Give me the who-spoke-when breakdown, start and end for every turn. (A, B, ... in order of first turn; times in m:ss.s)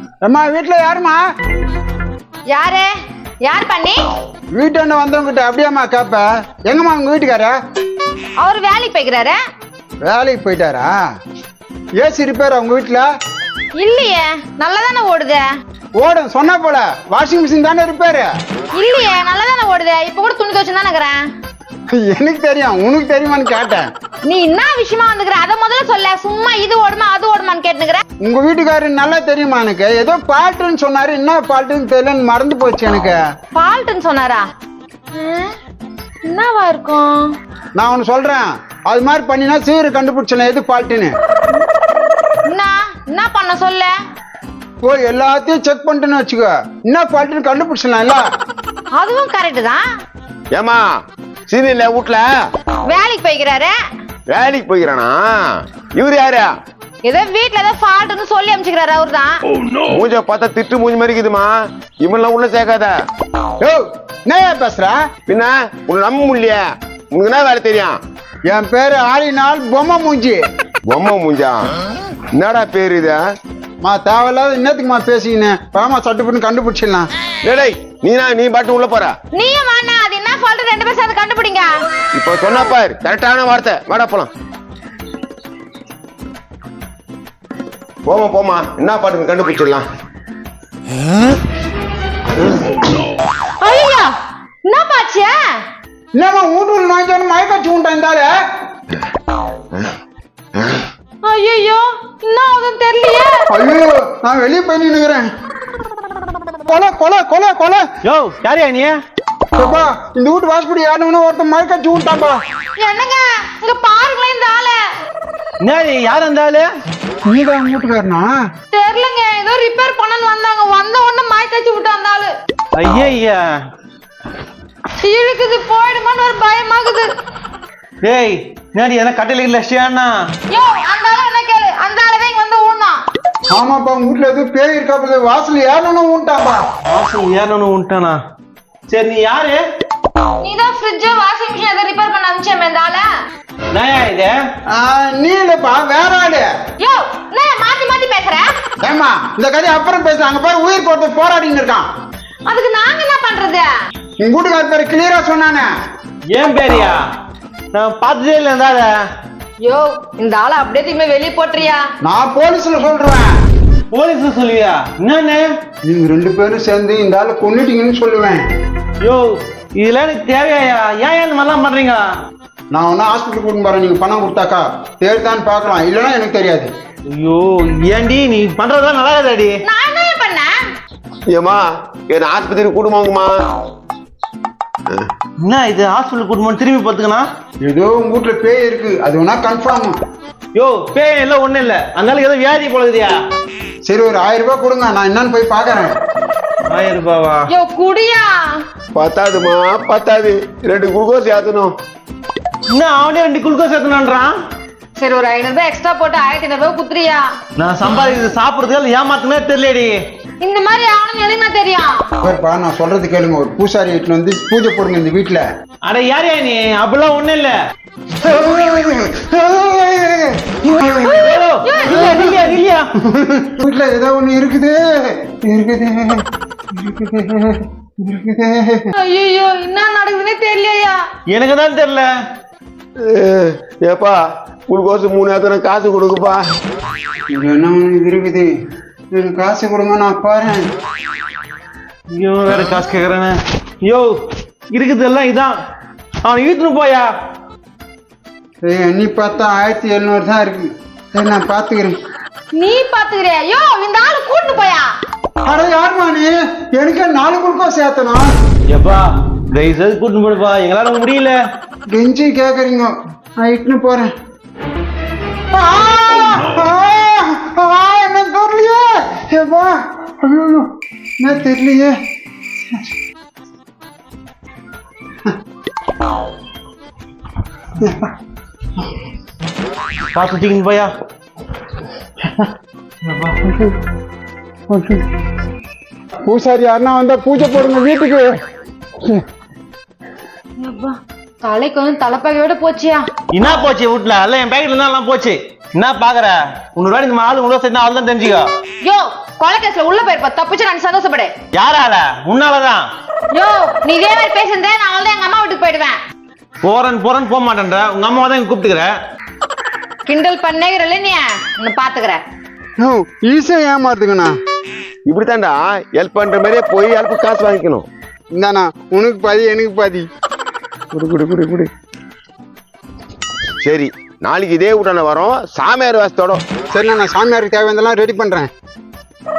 0:00.2-0:01.2 A
0:02.5-0:02.9 B
0:03.4-0:04.1 B
0:04.5-0:07.5 A
0:08.4-0:09.4 B
0:10.0-0:10.9 A
0:12.0-0:13.0 A
0:13.8-0:15.5 B
0:16.0-0:18.3 A
0:18.7-0:21.2 B
0:21.9-0:23.9 A
0:24.2-0:28.0 B
0:28.2-0:33.2 A
0:33.5-0:34.4 B
0:35.1-0:35.5 B
0:36.2-0:37.3 B
0:37.8-0:41.1 A
0:42.4-0:43.9 B
0:44.8-0:48.2 A
0:48.9-0:49.8 B
0:50.5-0:50.8 C
0:51.5-0:52.3 C
0:52.8-0:53.8 B
0:54.3-0:56.5 C
0:57.0-0:59.4 B
0:59.8-1:02.9 C
1:03.6-1:05.0 A
1:05.3-1:08.0 C
1:08.5-1:10.4 A
1:10.9-1:11.7 C
1:12.3-1:13.2 C
1:13.8-1:17.1 A
1:17.4-1:19.1 C
1:19.3-1:21.7 B
1:22.1-1:24.3 C
1:28.0-1:29.8 C
1:33.6-1:35.6 B
1:36.2-1:38.4 A
1:41.2-1:43.4 B
1:43.5-1:45.2 A
1:46.6-1:47.8 A
1:48.0-1:49.0 D
1:49.6-1:52.4 A
1:52.8-1:54.9 B
1:55.6-1:56.7 D
1:57.3-1:58.3 A
1:58.7-2:02.3 B
2:02.8-2:03.5 D
2:05.0-2:07.1 B
2:08.0-2:10.1 D
2:10.5-2:13.0 B
2:13.5-2:16.6 A
2:16.8-2:18.2 D
2:18.9-2:19.6 D
2:20.4-2:23.1 B
2:23.7-2:24.3 D
2:24.7-2:26.5 A
2:26.8-2:28.5 B
2:28.8-2:31.8 A
2:32.5-2:33.7 B
2:34.2-2:35.7 A
2:36.3-2:37.0 D
2:37.7-2:38.9 D
2:39.6-2:41.8 B
2:42.0-2:43.3 A
2:43.9-2:45.5 D
2:45.8-2:48.4 A
2:49.0-2:52.1 D
2:52.7-2:56.7 A
2:57.1-2:59.6 D
2:59.6-3:00.5 B
3:01.3-3:03.3 C
3:05.4-3:07.2 D
3:07.6-3:10.0 A
3:10.5-3:13.1 D
3:13.8-3:15.9 A
3:16.7-3:17.5 D
3:17.5-3:18.5 B
3:18.9-3:21.7 C
3:22.7-3:24.3 D
3:25.0-3:27.3 B
3:27.6-3:30.0 D
3:30.4-3:32.0 B
3:32.2-3:35.4 A
3:35.8-3:37.5 D
3:38.2-3:41.2 A
3:41.0-3:42.3 B
3:41.0-3:42.9 D
3:42.0-3:42.3 A
3:43.0-3:48.9 A
3:49.0-3:51.0 B
3:51.3-3:52.1 D
3:53.0-3:56.5 C
3:57.3-3:58.5 A
3:59.1-4:00.7 A
4:02.1-4:04.2 D
4:04.7-4:05.5 D
4:06.2-4:07.1 D
4:08.6-4:12.0 A
4:12.5-4:14.9 B
4:15.4-4:18.3 A
4:18.7-4:21.4 D
4:21.9-4:24.1 A
4:25.5-4:32.0 A
4:37.8-4:38.1 A
4:40.1-4:40.9 D
4:43.0-4:43.5 D
4:44.7-4:45.1 A
4:46.2-4:48.4 A
4:50.6-4:53.0 B
4:53.3-4:58.5 D
4:58.8-5:01.3 B
5:01.5-5:02.8 D
5:03.3-5:06.0 B
5:06.6-5:08.9 D
5:10.0-5:12.2 B
5:12.8-5:14.3 A
5:15.0-5:17.9 C
5:18.4-5:20.0 A
5:20.9-5:21.7 C
5:23.6-5:26.4 C
5:26.7-5:28.5 A